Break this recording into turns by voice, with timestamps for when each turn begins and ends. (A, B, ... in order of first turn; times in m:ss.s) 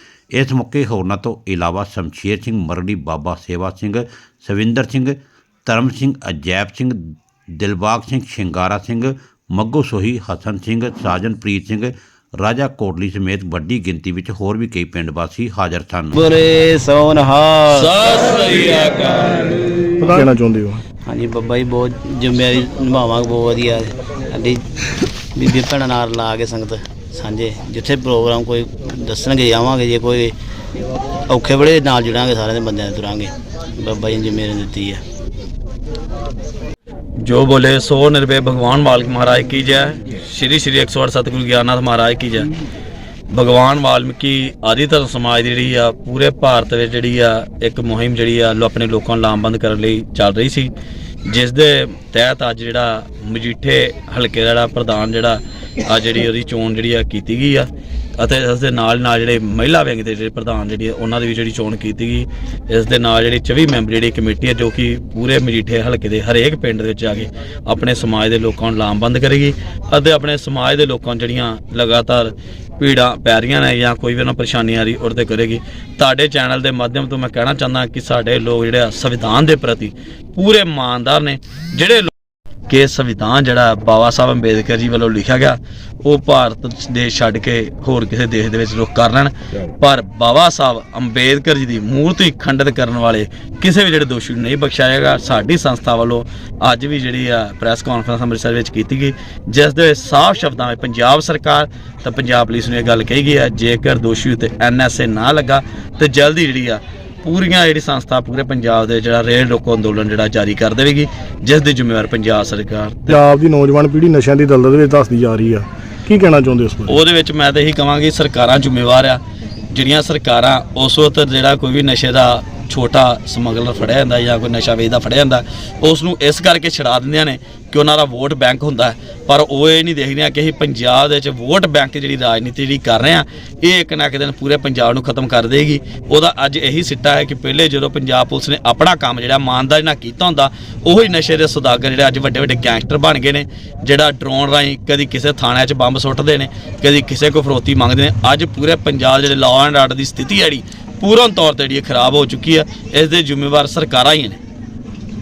0:00.3-0:16.2 A
0:16.1-0:18.0 B
0:17.7-0:20.0 C
0:20.0-0:20.8 D
0:21.1-0:24.6 B
0:25.4-0:30.3 B
0:31.3-0:35.0 B
0:37.2-0:42.5 C
0:43.3-0:50.7 C
0:51.2-1:22.1 C
1:22.7-1:53.2 C
1:53.1-1:57.0 D
1:56.9-2:34.4 C